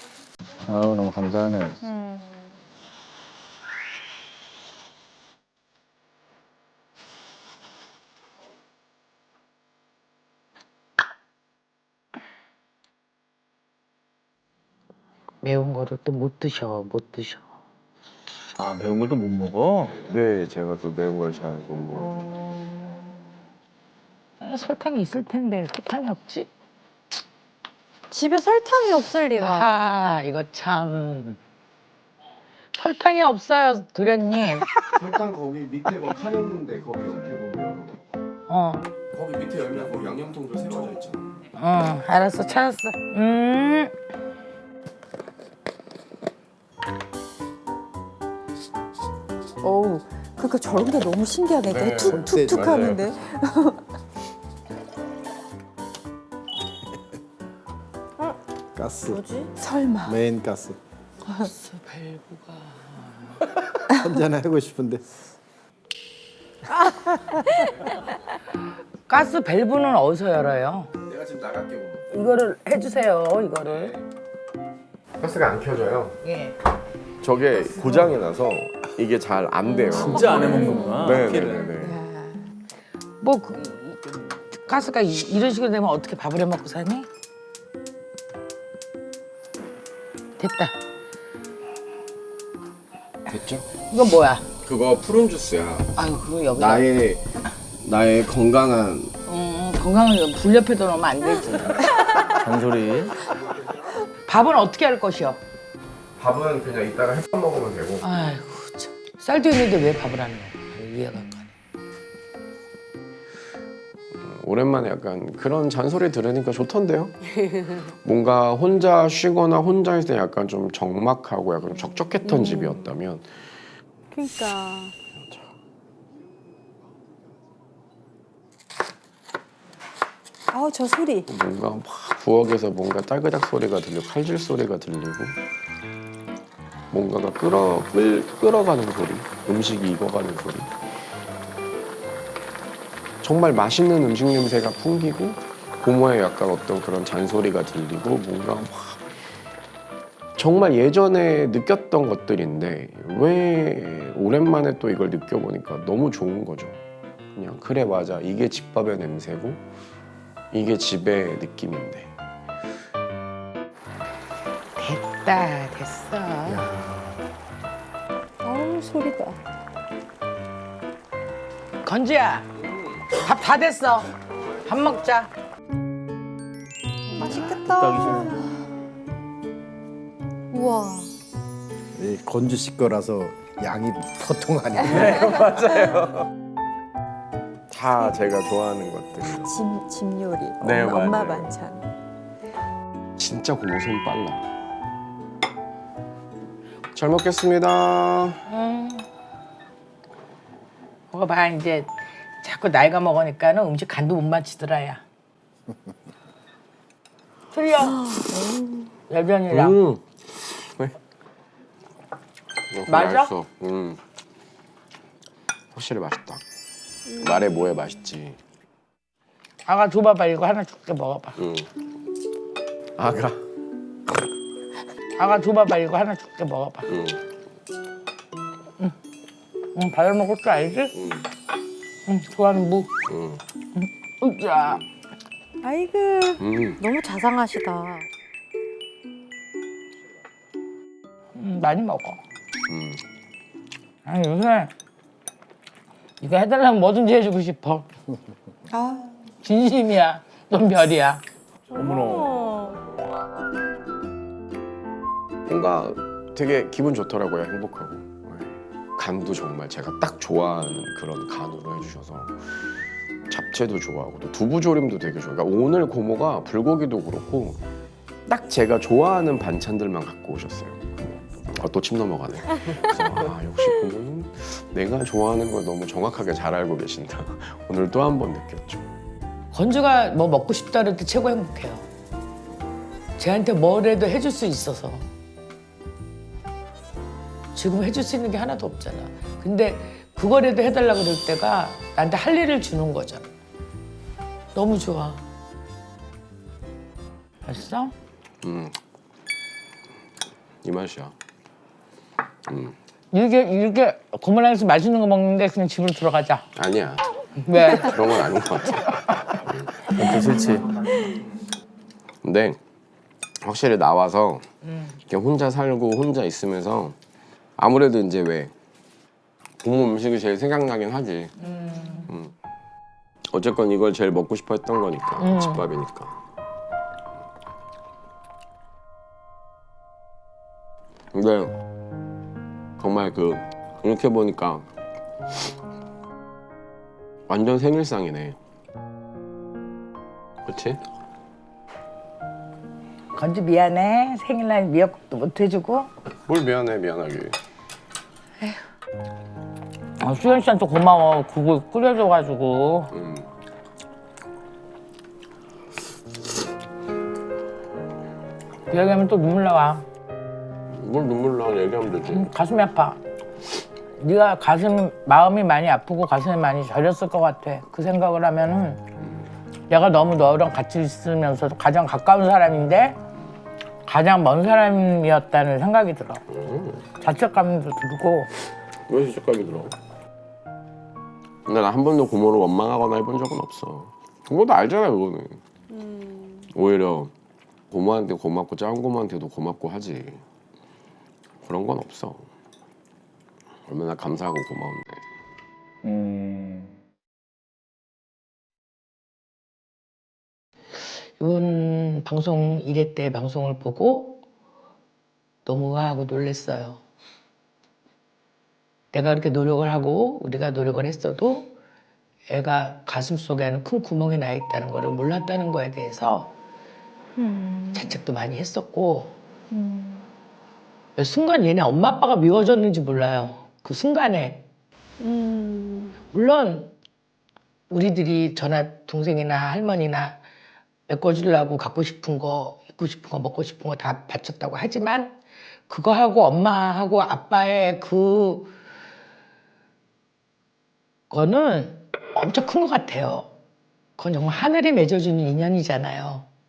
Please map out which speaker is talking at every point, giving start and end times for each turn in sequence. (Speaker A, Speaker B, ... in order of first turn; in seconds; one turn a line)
Speaker A: 0.7-1.8
Speaker B: 15.4-17.4
Speaker A: 18.6-19.9
Speaker C: 20.0-22.1
Speaker B: 24.4-26.5
Speaker D: 28.1-29.7
Speaker B: 29.4-31.4
Speaker B: 32.7-34.7
Speaker C: 34.9-37.9
Speaker B: 38.5-38.8
Speaker C: 39.1-41.4
Speaker B: 41.5-43.9
Speaker E: 49.6-53.8
Speaker C: 51.6-53.1
Speaker F: 52.0-53.0
Speaker F: 58.7-59.2
Speaker D: 59.1-59.5
Speaker E: 59.5-60.2
Speaker F: 60.0-60.8
Speaker B: 61.4-63.4
Speaker F: 63.9-65.0
Speaker B: 69.1-70.9
Speaker C: 71.0-72.0
Speaker B: 72.1-74.0
Speaker C: 75.2-76.2
Speaker B: 76.2-76.5
Speaker C: 77.2-82.0
Speaker A: 79.9-81.7
Speaker E: 80.0-82.4
Speaker B: 83.2-84.0
Speaker B: 84.5-87.1
Speaker B: 90.4-90.7
Speaker C: 93.3-93.7
Speaker B: 93.9-94.4
Speaker C: 94.6-95.9
Speaker B: 96.0-96.9
Speaker C: 96.5-97.2
Speaker C: 97.8-99.1
Speaker B: 99.3-101.9
Speaker A: 102.4-103.1
Speaker B: 104.3-105.4
Speaker C: 106.2-108.0
Speaker B: 108.0-111.5
Speaker C: 114.2-117.1
Speaker C: 118.0-123.3
Speaker E: 122.2-122.9
Speaker E: 124.1-124.9
Speaker C: 125.2-125.4
Speaker E: 130.5-131.3
Speaker C: 131.3-135.4
Speaker C: 136.9-140.7
Speaker C: 143.2-149.1
Speaker C: 150.3-156.8
Speaker C: 157.3-159.6
Speaker C: 160.5-162.1
Speaker B: 164.8-166.7
Speaker E: 168.4-169.4
Speaker B: 171.8-172.5
Speaker B: 173.1-174.1
Speaker B: 174.6-175.3
Speaker E: 177.2-178.7
Speaker A: 177.2-178.3
Speaker D: 180.5-181.1
Speaker F: 182.0-185.9
Speaker C: 184.9-186.2
Speaker C: 187.7-189.6
Speaker E: 189.3-191.9
Speaker C: 190.6-191.5
Speaker C: 193.2-194.4
Speaker C: 196.9-198.4
Speaker B: 198.5-199.0
Speaker B: 201.1-201.9
Speaker B: 202.4-205.0
Speaker B: 207.5-208.1
Speaker E: 208.0-208.9
Speaker B: 209.1-209.8
Speaker C: 209.5-210.9
Speaker C: 212.7-214.0
Speaker B: 212.9-213.3
Speaker C: 215.7-216.4
Speaker E: 217.1-217.4
Speaker C: 217.2-218.4
Speaker B: 219.7-221.4
Speaker C: 221.4-221.7
Speaker C: 223.0-223.4
Speaker B: 225.2-226.9
Speaker C: 226.9-227.2
Speaker B: 229.7-230.9
Speaker C: 230.9-231.3
Speaker B: 232.1-232.9
Speaker C: 233.1-233.4
Speaker B: 233.7-234.8
Speaker E: 235.6-236.4
Speaker C: 236.4-236.8
Speaker D: 236.8-238.1
Speaker B: 241.3-242.2
Speaker C: 242.7-243.0
Speaker B: 244.0-244.7
Speaker B: 246.2-247.9
Speaker E: 248.7-249.1
Speaker B: 249.4-251.2
Speaker A: 251.7-252.4
Speaker E: 251.7-252.8
Speaker C: 255.5-262.4
Speaker C: 263.3-267.6
Speaker C: 268.3-270.8
Speaker C: 271.5-278.9
Speaker B: 279.5-281.9
Speaker B: 283.2-285.1
Speaker B: 287.5-293.3
Speaker B: 294.5-295.2
Speaker B: 297.4-297.9
Speaker C: 298.4-298.8
Speaker C: 300.6-301.1
Speaker C: 302.4-302.7
Speaker B: 303.1-306.4
Speaker C: 306.6-307.1
Speaker B: 307.4-307.9
Speaker C: 307.6-309.9
Speaker A: 309.9-310.7
Speaker C: 312.2-312.6
Speaker C: 313.4-314.4
Speaker B: 314.7-314.9
Speaker C: 315.1-316.9
Speaker C: 317.6-318.5
Speaker C: 319.6-321.3
Speaker B: 321.4-322.1
Speaker C: 322.1-322.3
Speaker C: 323.3-326.2
Speaker B: 325.2-325.7
Speaker C: 331.1-331.5
Speaker C: 332.8-334.7
Speaker C: 337.3-338.4
Speaker C: 340.4-340.8
Speaker B: 343.1-345.9
Speaker C: 346.3-347.3
Speaker B: 350.0-352.9
Speaker C: 352.9-353.3
Speaker B: 358.7-359.8
Speaker C: 360.7-362.3
Speaker B: 362.1-363.0
Speaker B: 364.0-368.8
Speaker B: 369.7-373.0
Speaker B: 373.9-376.2
Speaker C: 376.3-376.8
Speaker B: 377.0-378.3
Speaker C: 378.9-379.7
Speaker C: 381.4-385.4
Speaker E: 385.7-386.5
Speaker C: 386.5-387.1
Speaker C: 387.7-390.2
Speaker C: 391.4-392.2
Speaker C: 393.7-395.0
Speaker A: 395.8-396.7
Speaker B: 401.2-404.2
Speaker B: 405.4-406.8
Speaker B: 408.9-411.5
Speaker B: 412.3-416.3
Speaker D: 417.2-417.8
Speaker B: 417.7-419.1
Speaker D: 419.5-419.8
Speaker B: 421.0-424.4
Speaker E: 425.0-425.9
Speaker B: 426.1-426.7
Speaker B: 427.7-430.2
Speaker B: 430.9-435.2
Speaker B: 435.7-438.5
Speaker B: 441.1-443.3
Speaker B: 444.0-446.3